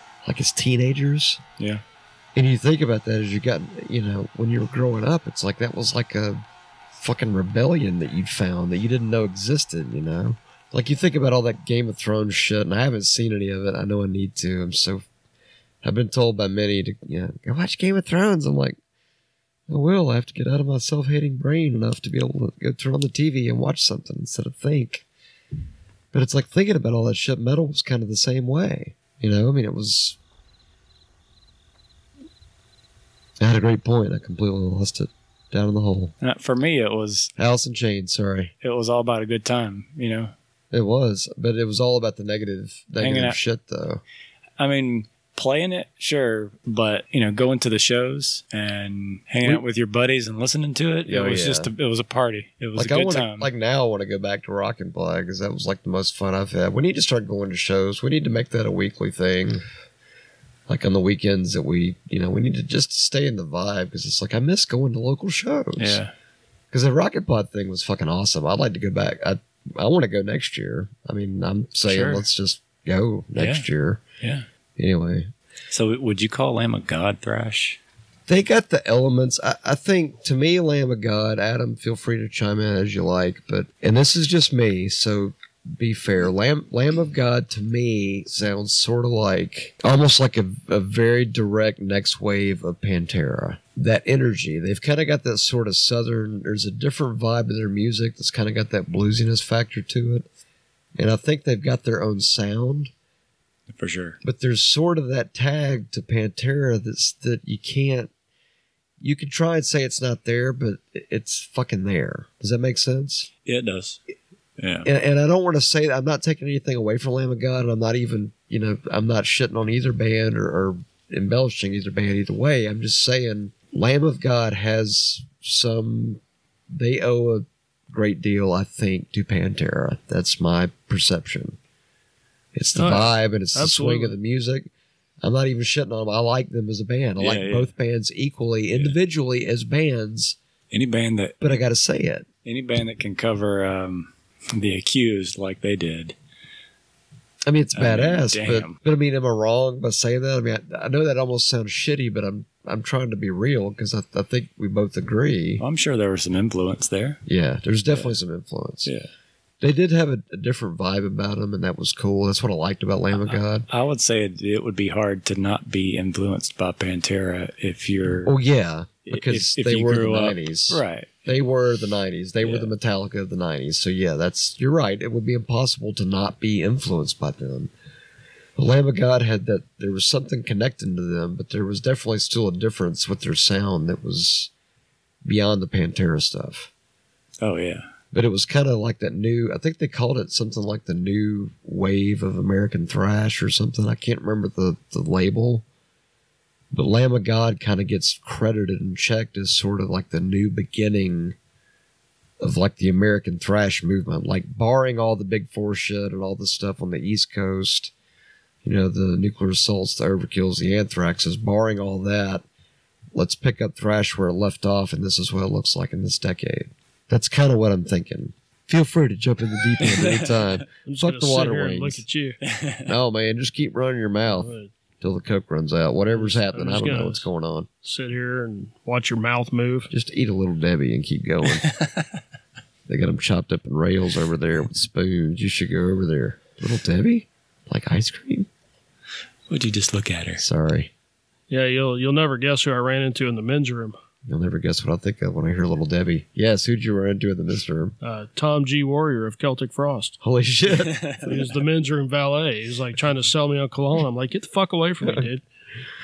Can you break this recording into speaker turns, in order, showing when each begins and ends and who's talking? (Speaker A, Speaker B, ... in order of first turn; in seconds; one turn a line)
Speaker A: 0.2-1.4
Speaker A: 2.3-6.4
Speaker A: 7.0-15.0
Speaker A: 15.8-18.8
Speaker A: 19.7-25.0
Speaker A: 26.1-30.2
Speaker A: 33.4-36.1
Speaker B: 36.2-37.3
Speaker A: 37.4-38.5
Speaker B: 38.6-40.3
Speaker A: 40.7-44.0
Speaker B: 43.0-43.4
Speaker B: 44.6-53.5
Speaker A: 51.0-51.7
Speaker A: 52.8-59.6
Speaker A: 60.7-66.0
Speaker B: 65.8-66.1
Speaker A: 66.7-74.0
Speaker B: 71.9-72.2
Speaker B: 73.3-73.7
Speaker B: 74.2-74.5
Speaker A: 74.8-75.3
Speaker B: 75.7-77.8
Speaker A: 78.3-100.2
Speaker A: 101.0-102.9
Speaker B: 103.7-104.2
Speaker A: 104.2-108.1
Speaker A: 109.0-113.3
Speaker B: 113.4-114.0
Speaker B: 114.6-114.9
Speaker A: 114.8-126.2
Speaker A: 126.7-131.6
Speaker A: 132.5-134.7
Speaker C: 132.8-134.1
Speaker A: 135.2-140.4
Speaker B: 137.2-137.7
Speaker B: 140.7-141.4
Speaker A: 141.4-142.3
Speaker B: 142.4-146.2
Speaker A: 147.4-155.6
Speaker B: 147.7-148.8
Speaker B: 155.6-157.2
Speaker A: 157.2-158.9
Speaker A: 159.6-163.7
Speaker B: 163.2-168.3
Speaker A: 168.2-177.7
Speaker B: 169.1-171.3
Speaker B: 172.4-172.7
Speaker A: 178.6-184.5
Speaker A: 185.2-186.7
Speaker B: 187.4-187.8
Speaker A: 188.1-195.6
Speaker A: 196.7-201.3
Speaker A: 202.4-207.9
Speaker A: 208.6-212.4
Speaker A: 213.1-222.0
Speaker B: 219.8-220.6
Speaker C: 220.8-222.4
Speaker B: 222.4-222.9
Speaker A: 222.8-227.7
Speaker C: 224.3-224.7
Speaker C: 226.1-227.2
Speaker C: 227.8-229.9
Speaker A: 229.9-231.7
Speaker B: 231.6-232.0
Speaker A: 232.9-238.5
Speaker B: 239.5-240.4
Speaker A: 240.4-240.9
Speaker C: 241.5-243.9
Speaker A: 244.2-247.9
Speaker C: 248.0-250.2
Speaker A: 250.2-251.0
Speaker B: 250.7-251.3
Speaker C: 251.2-255.4